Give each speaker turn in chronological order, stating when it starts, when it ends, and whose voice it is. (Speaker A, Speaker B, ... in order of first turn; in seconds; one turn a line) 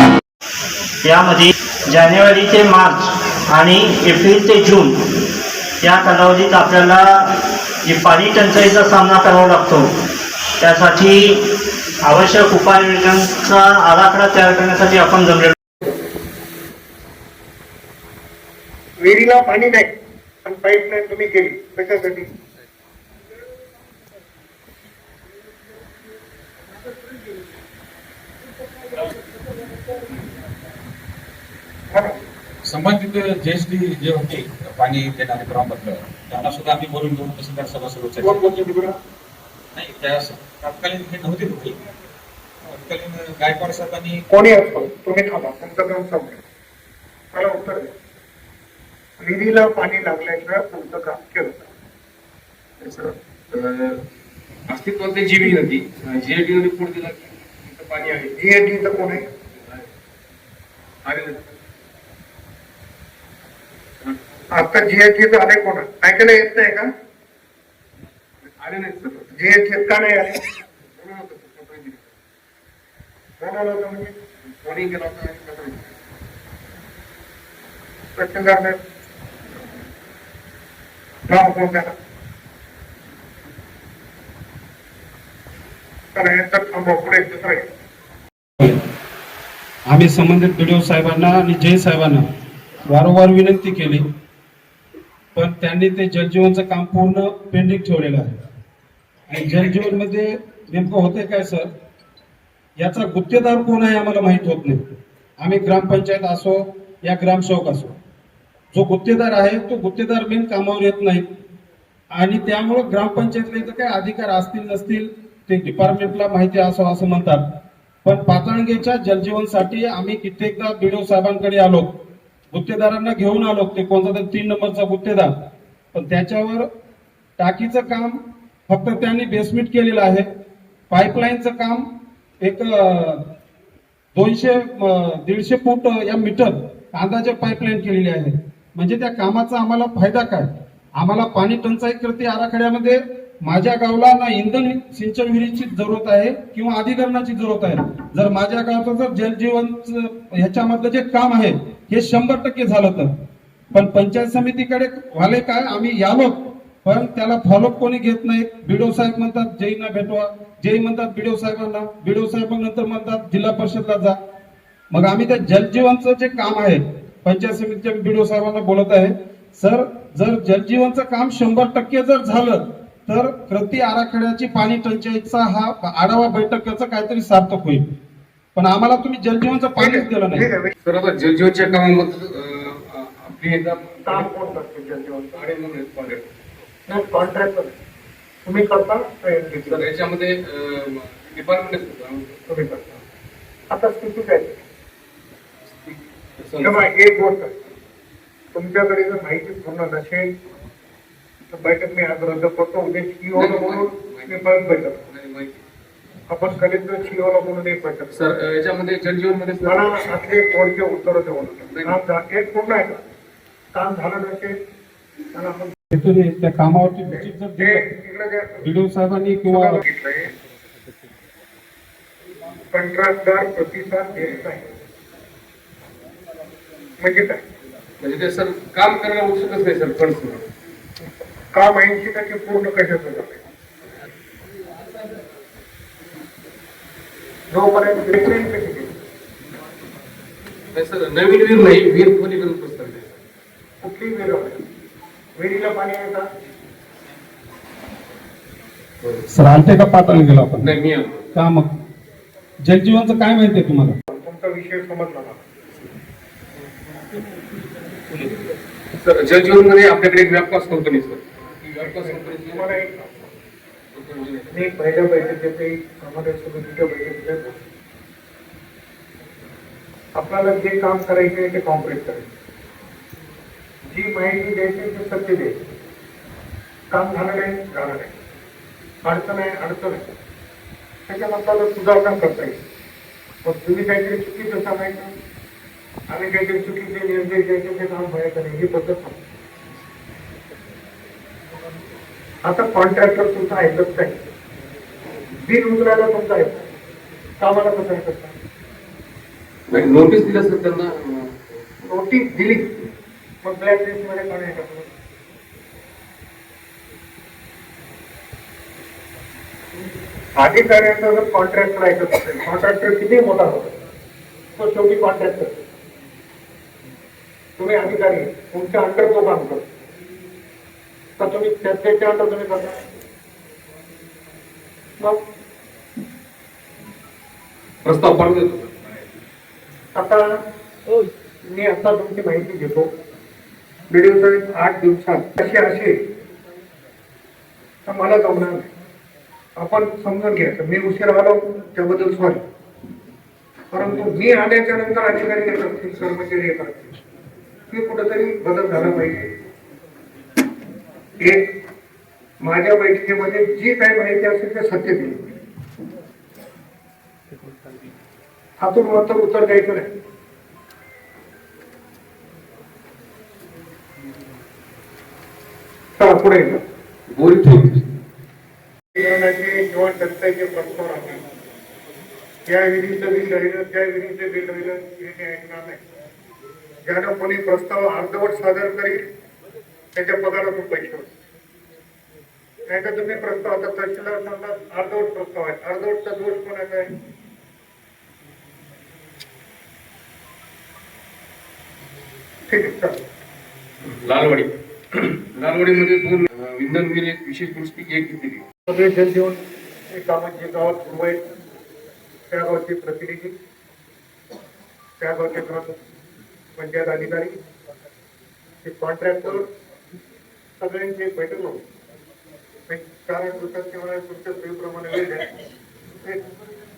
Speaker A: 1.1-5.0
Speaker A: 5.8-7.3
Speaker A: 7.8-9.9
Speaker A: 10.6-11.4
Speaker A: 12.0-15.5
Speaker B: 19.0-19.9
Speaker B: 20.4-22.3
Speaker B: 31.9-32.2
Speaker C: 32.6-38.5
Speaker B: 38.2-39.0
Speaker C: 39.8-41.8
Speaker C: 42.7-44.2
Speaker B: 44.3-46.4
Speaker B: 47.3-47.9
Speaker B: 49.2-51.6
Speaker D: 52.8-54.0
Speaker D: 54.7-58.4
Speaker B: 58.4-59.2
Speaker D: 59.5-59.9
Speaker D: 61.0-61.4
Speaker B: 64.5-66.9
Speaker D: 68.6-69.3
Speaker B: 69.3-70.4
Speaker D: 71.0-72.2
Speaker B: 73.4-74.1
Speaker D: 74.6-75.9
Speaker B: 78.2-78.8
Speaker B: 81.3-81.9
Speaker B: 86.1-87.7
Speaker E: 89.9-92.2
Speaker E: 92.9-94.1
Speaker E: 95.3-98.4
Speaker E: 99.3-101.7
Speaker E: 102.8-104.8
Speaker E: 105.4-108.0
Speaker E: 108.7-111.3
Speaker E: 112.2-117.4
Speaker E: 118.0-122.0
Speaker E: 122.5-125.3
Speaker E: 126.0-126.7
Speaker E: 127.4-130.3
Speaker E: 130.9-131.8
Speaker E: 132.4-133.2
Speaker E: 134.2-153.1
Speaker E: 153.7-164.2
Speaker E: 164.9-177.9
Speaker E: 178.6-180.5
Speaker B: 179.8-180.7
Speaker D: 180.8-184.3
Speaker B: 184.1-185.4
Speaker D: 185.4-186.3
Speaker B: 186.9-187.8
Speaker B: 188.4-189.9
Speaker D: 189.7-192.4
Speaker B: 192.5-193.0
Speaker B: 193.7-194.6
Speaker D: 195.8-196.9
Speaker B: 196.6-197.5
Speaker B: 198.5-200.3
Speaker B: 201.5-205.0
Speaker D: 203.3-204.4
Speaker D: 205.1-205.6
Speaker B: 206.3-208.2
Speaker D: 208.1-210.1
Speaker B: 209.6-213.0
Speaker D: 211.7-212.0
Speaker B: 213.7-214.5
Speaker B: 215.3-215.7
Speaker E: 215.9-217.9
Speaker B: 217.6-218.7
Speaker E: 218.6-219.8
Speaker B: 219.4-220.3
Speaker B: 222.7-224.7
Speaker B: 227.0-227.4
Speaker D: 228.0-230.4
Speaker B: 231.5-233.4
Speaker B: 237.5-238.9
Speaker D: 240.7-243.1
Speaker B: 243.8-244.6
Speaker B: 245.4-246.3
Speaker E: 249.3-250.7
Speaker D: 250.6-251.2
Speaker E: 251.3-251.7
Speaker E: 252.7-254.0
Speaker B: 254.1-255.4
Speaker D: 259.0-262.7
Speaker B: 261.8-263.2
Speaker D: 263.9-264.6
Speaker B: 264.5-267.6
Speaker B: 270.1-272.3
Speaker B: 273.9-275.5
Speaker B: 276.9-278.1
Speaker B: 279.1-280.0
Speaker B: 281.1-282.6
Speaker B: 283.4-285.1
Speaker B: 286.1-289.2
Speaker B: 292.4-294.2
Speaker B: 295.4-296.7
Speaker B: 297.4-298.4
Speaker D: 299.7-301.6
Speaker B: 301.9-302.7
Speaker B: 303.4-304.9
Speaker B: 310.4-313.7
Speaker B: 314.6-315.5
Speaker B: 317.6-319.7
Speaker B: 321.2-322.8
Speaker D: 327.8-329.1
Speaker B: 329.9-330.2
Speaker B: 331.5-332.9
Speaker B: 333.9-336.0
Speaker B: 337.9-338.7
Speaker B: 339.6-342.4
Speaker B: 343.7-346.9
Speaker B: 347.7-349.3
Speaker B: 351.2-351.5
Speaker B: 352.4-355.2
Speaker B: 358.6-359.9
Speaker B: 366.0-366.6
Speaker D: 367.1-367.8
Speaker B: 368.9-371.2
Speaker B: 372.5-375.8
Speaker B: 376.9-379.0
Speaker B: 379.9-381.1
Speaker B: 382.7-386.9
Speaker B: 392.5-393.0
Speaker D: 393.9-398.4
Speaker B: 398.7-399.4
Speaker B: 399.9-401.2
Speaker B: 402.3-403.4
Speaker B: 405.0-405.8
Speaker B: 406.6-407.4
Speaker B: 408.6-409.4
Speaker B: 410.6-411.6
Speaker B: 412.7-415.3